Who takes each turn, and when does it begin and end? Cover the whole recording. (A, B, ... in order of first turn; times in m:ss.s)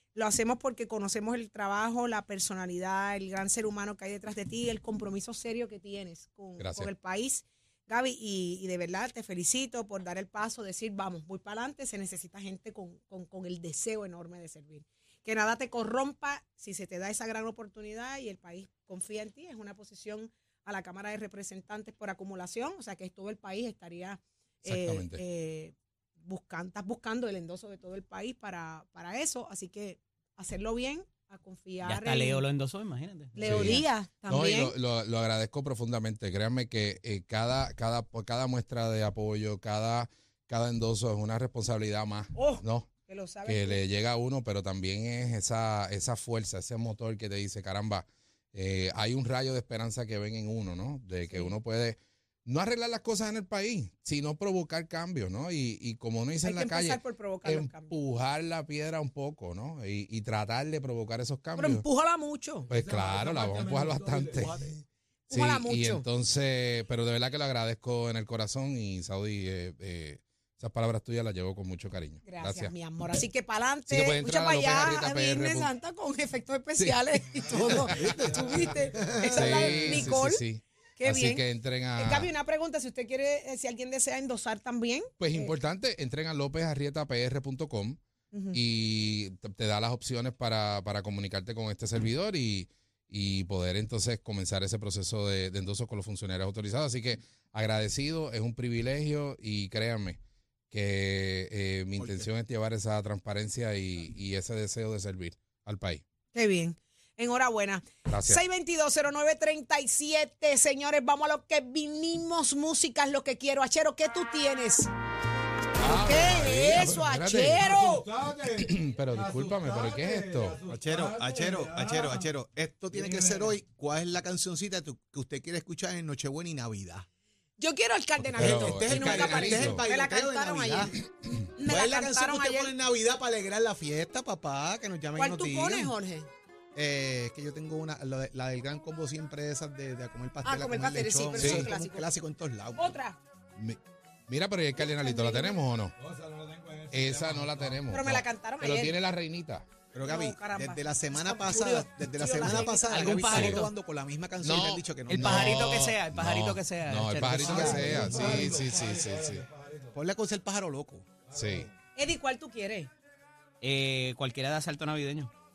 0:00.2-0:32.4 A
0:06.6-0:06.9 B
0:24.6-0:25.2 B
0:31.8-0:33.9 C
0:33.4-0:34.8 A
0:33.4-0:42.9 B
0:42.4-0:43.8 A
0:43.5-1:01.8 B
0:51.3-0:51.5 A
0:56.4-0:58.0 A
1:01.6-1:02.7 A
1:02.7-1:04.6 B
1:02.7-1:04.7 D
1:04.3-1:04.8 E
1:05.3-1:06.0 A
1:05.3-1:12.7 B
1:12.2-1:20.4 A
1:13.9-1:15.7 B
1:16.8-1:17.1 B
1:17.5-1:20.2 E
1:17.8-1:18.1 B
1:18.2-1:19.2 D
1:19.3-1:22.3 B
1:21.0-1:21.4 A
1:22.0-1:25.5 A
1:25.2-1:28.0 B
1:28.3-1:28.6 A
1:28.5-1:40.2 B
1:40.7-1:46.0 B
1:42.0-1:42.3 E
1:46.3-1:54.9 A
1:48.1-1:48.4 B
1:55.8-1:57.6 B
1:55.8-1:58.1 A
1:57.5-2:02.3 D
1:58.6-2:00.6 B
2:00.7-2:07.1 E
2:02.9-2:03.6 D
2:07.6-2:11.0 A
2:08.3-2:09.8 B
2:08.4-2:11.0 E
2:11.6-2:12.7 A
2:11.7-2:16.0 E
2:15.2-2:16.3 A
2:16.8-2:23.0 E
2:20.4-2:22.1 A
2:21.4-2:21.7 B
2:22.8-2:23.2 A
2:23.6-2:25.9 B
2:24.8-2:25.6 A
2:26.0-2:27.9 D
2:26.9-2:29.7 B
2:27.9-2:29.0 A
2:29.9-2:35.7 E
2:30.0-2:33.4 A
2:32.8-2:33.7 C
2:33.3-2:33.6 B
2:34.4-2:39.5 B
2:35.1-2:38.0 C
2:37.4-2:40.0 D
2:37.4-2:38.5 E
2:39.9-2:41.1 E
2:41.3-2:41.7 D
2:41.4-2:41.7 B
2:42.0-2:42.9 A
2:43.6-2:45.3 C